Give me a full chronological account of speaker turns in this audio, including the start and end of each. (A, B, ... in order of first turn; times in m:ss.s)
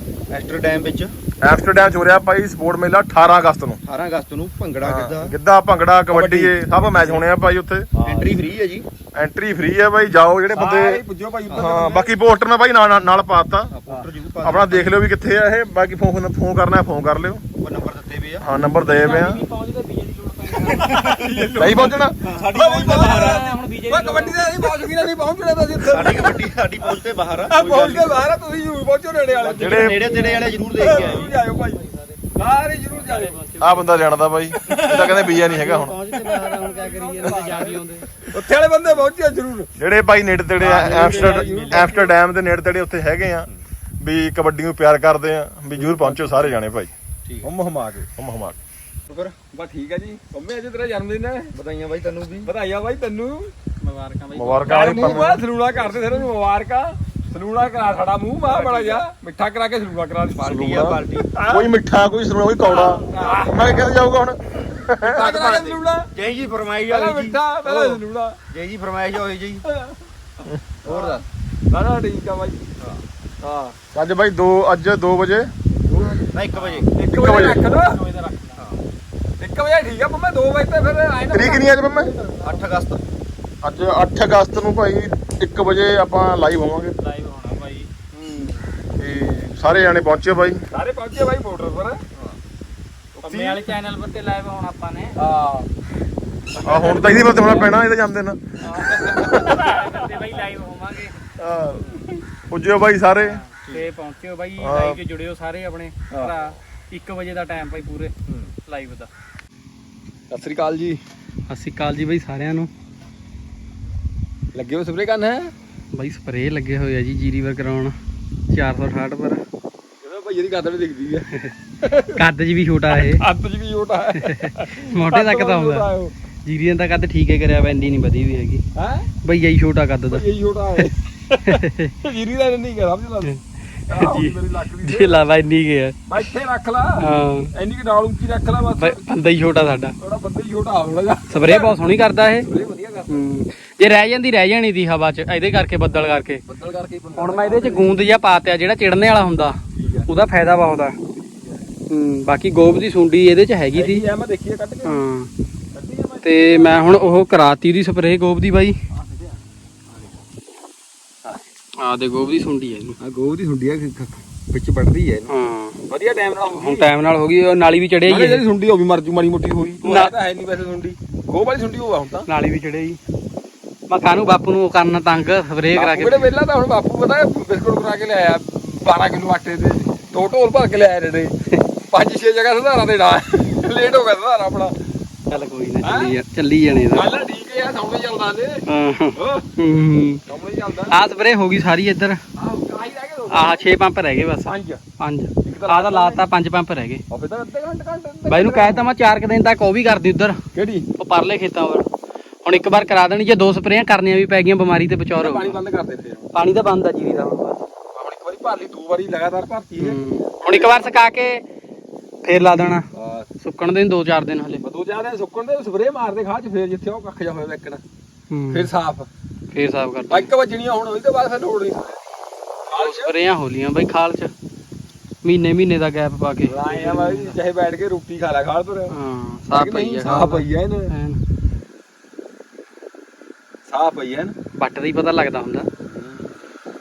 0:00.3-0:01.1 A
0:01.4-0:03.8 B
0:03.8-0:05.4 A
0:04.8-0:07.9 B
0:06.1-0:07.2 C
0:07.9-0:08.3 C
0:08.0-0:08.9 A
0:09.1-0:13.7 B
0:10.5-0:12.1 C
0:11.5-0:11.8 A
0:13.7-0:15.0 A
0:14.4-0:17.4 B
0:17.6-0:18.5 A
0:18.4-0:19.4 B
0:18.8-0:21.5 D
0:20.6-0:26.5 C
0:20.8-0:21.3 A
0:21.6-0:22.2 B
0:22.2-0:23.4 A
0:22.7-0:24.6 D
0:25.9-0:28.2 A
0:27.5-0:33.4 C
0:29.4-0:32.2 D
0:29.4-0:31.4 A
0:29.6-0:30.1 B
0:32.9-0:34.0 D
0:33.6-0:36.0 B
0:34.5-0:39.7 C
0:34.8-0:38.1 D
0:39.8-0:43.5 B
0:40.6-0:42.1 C
0:40.6-0:41.8 A
0:41.2-0:41.6 D
0:44.0-0:46.9 B
0:45.7-0:46.5 C
0:47.2-0:47.5 A
0:47.4-0:48.1 C
0:48.2-0:48.6 B
0:49.1-0:49.4 A
0:49.5-0:51.5 C
0:51.5-0:52.5 A
0:52.4-0:53.5 C
0:53.8-0:55.2 D
0:54.3-0:55.4 B
0:54.6-1:00.7 C
0:58.5-0:59.0 A
0:58.6-0:59.0 D
1:00.4-1:05.5 B
1:00.4-1:01.3 A
1:01.2-1:01.7 C
1:02.6-1:03.5 D
1:03.1-1:03.6 C
1:03.2-1:03.5 A
1:05.0-1:06.1 C
1:05.4-1:09.6 A
1:06.9-1:08.4 C
1:09.6-1:10.0 C
1:10.8-1:11.2 A
1:10.8-1:12.7 C
1:13.4-1:13.8 C
1:13.9-1:15.5 B
1:15.9-1:16.2 C
1:16.0-1:18.6 D
1:16.3-1:16.9 A
1:16.9-1:18.0 C
1:17.1-1:17.7 B
1:19.4-1:22.4 C
1:21.3-1:22.1 B
1:22.4-1:23.0 A
1:23.6-1:26.9 B
1:27.0-1:27.9 D
1:28.1-1:28.6 C
1:29.0-1:30.6 B
1:30.7-1:32.0 C
1:33.2-1:33.7 C
1:33.2-1:35.1 D
1:35.2-1:35.7 C
1:36.5-1:37.7 D
1:36.7-1:38.4 B
1:36.7-1:37.7 C
1:38.6-1:41.2 D
1:39.3-1:40.1 C
1:41.4-1:41.8 B
1:42.5-1:43.4 B
1:43.2-1:48.1 D
1:44.6-1:45.0 B
1:48.7-1:49.1 D
1:50.3-1:51.0 C
1:51.5-1:52.7 D
1:54.5-1:55.5 C
1:55.9-1:58.0 D
1:58.5-1:59.4 D
2:00.0-2:02.2 C
2:02.1-2:03.2 D
2:02.9-2:06.1 C
2:04.2-2:05.9 D
2:06.4-2:08.6 D
2:08.8-2:09.1 C
2:09.2-2:11.9 D
2:10.1-2:10.9 C
2:11.5-2:13.3 C
2:13.9-2:15.3 C
2:13.9-2:16.0 D
2:16.1-2:19.1 C
2:17.0-2:17.5 D
2:18.8-2:19.9 D
2:20.0-2:21.8 C
2:21.3-2:22.5 D
2:22.4-2:23.2 C
2:23.1-2:26.4 D
2:26.5-2:28.0 C
2:27.2-2:31.0 D
2:29.8-2:30.1 C
2:31.2-2:31.6 C
2:31.9-2:34.1 D
2:33.7-2:35.0 C
2:34.8-2:35.3 D
2:35.7-2:37.2 C
2:36.2-2:38.8 D
2:38.9-2:40.2 C
2:41.8-2:43.0 D
2:43.0-2:45.3 C
2:45.3-2:45.8 D
2:45.9-2:46.9 C
2:46.5-2:48.4 D
2:48.1-2:52.3 C
2:49.8-2:50.1 D
2:52.3-2:53.0 D
2:53.9-2:56.3 D
2:55.8-3:01.4 C
3:01.9-3:04.8 C
3:05.3-3:07.1 D
3:05.8-3:06.2 C
3:06.9-3:09.5 C
3:08.7-3:10.2 D
3:10.3-3:11.0 C
3:10.9-3:12.2 D
3:12.4-3:13.7 C
3:13.3-3:17.0 D
3:14.4-3:14.8 C
3:15.4-3:16.2 C
3:17.1-3:18.9 C
3:18.3-3:20.4 D
3:20.5-3:20.9 C
3:21.0-3:21.9 D
3:22.4-3:25.6 D
3:25.2-3:26.3 C
3:26.3-3:27.6 D
3:27.9-3:30.9 C
3:29.8-3:31.4 D
3:32.2-3:32.8 D
3:32.9-3:33.3 C
3:33.4-3:34.6 D
3:34.6-3:37.8 C
3:38.3-3:38.7 D
3:38.5-3:39.1 C
3:39.5-3:40.3 D
3:40.1-3:42.0 C
3:42.7-3:43.1 C
3:42.7-3:44.3 D
3:45.2-3:47.4 D
3:46.4-3:48.9 C
3:48.9-3:51.2 D
3:49.5-3:50.9 C
3:53.7-3:54.4 C
3:54.6-3:55.7 D
3:55.9-3:56.3 C